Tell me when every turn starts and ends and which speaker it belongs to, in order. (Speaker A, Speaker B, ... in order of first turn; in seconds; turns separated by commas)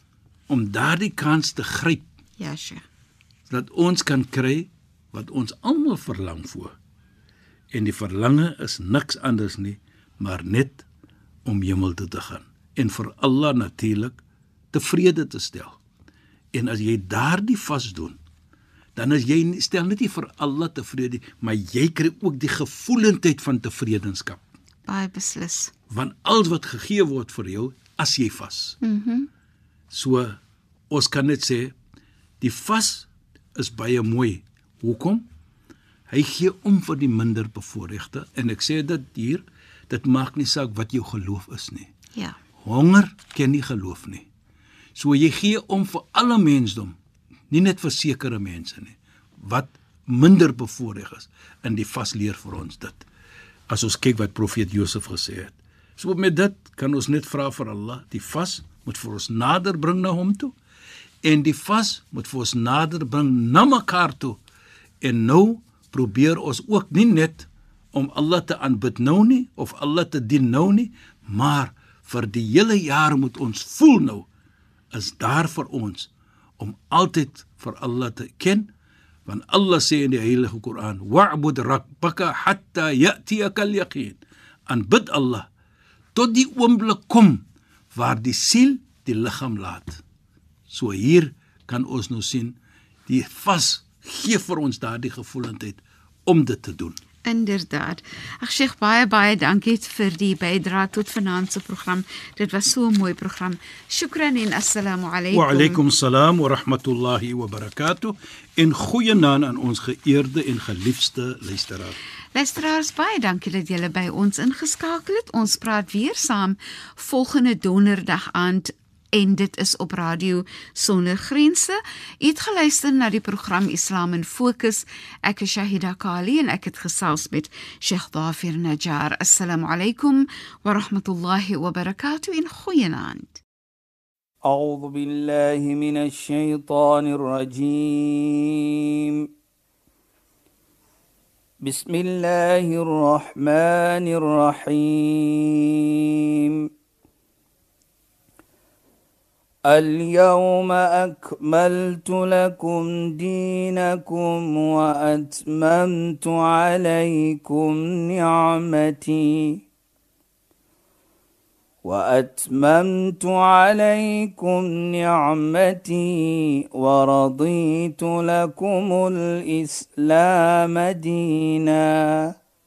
Speaker A: 0.5-2.0, Speaker B: 2.4-2.8, Speaker A: 3.5-6.7, Speaker A: 7.7-10.8, Speaker A: 11.4-14.2, Speaker A: 14.7-15.8, Speaker A: 16.5-18.2, Speaker A: 18.9-24.4, Speaker B: 24.9-25.7, Speaker A: 25.9-28.8, Speaker B: 28.8-29.3, Speaker A: 29.9-30.4, Speaker A: 30.9-31.7, Speaker A: 32.4-35.2, Speaker A: 36.1-41.9, Speaker A: 42.6-44.2, Speaker A: 45.0-46.9, Speaker A: 47.5-53.1, Speaker A: 53.7-60.5, Speaker A: 61.2-64.4, Speaker A: 65.0-74.3, Speaker A: 74.9-78.7, Speaker A: 79.2-85.5, Speaker A: 86.1-90.0, Speaker A: 90.7-92.5, Speaker A: 93.1-97.0, Speaker B: 97.2-105.8, Speaker A: 105.3-112.0, Speaker B: 112.3-133.4, Speaker C: 134.4-139.3, Speaker C: 141.6-146.7, Speaker C: 149.7-159.6, Speaker C: 161.8-172.3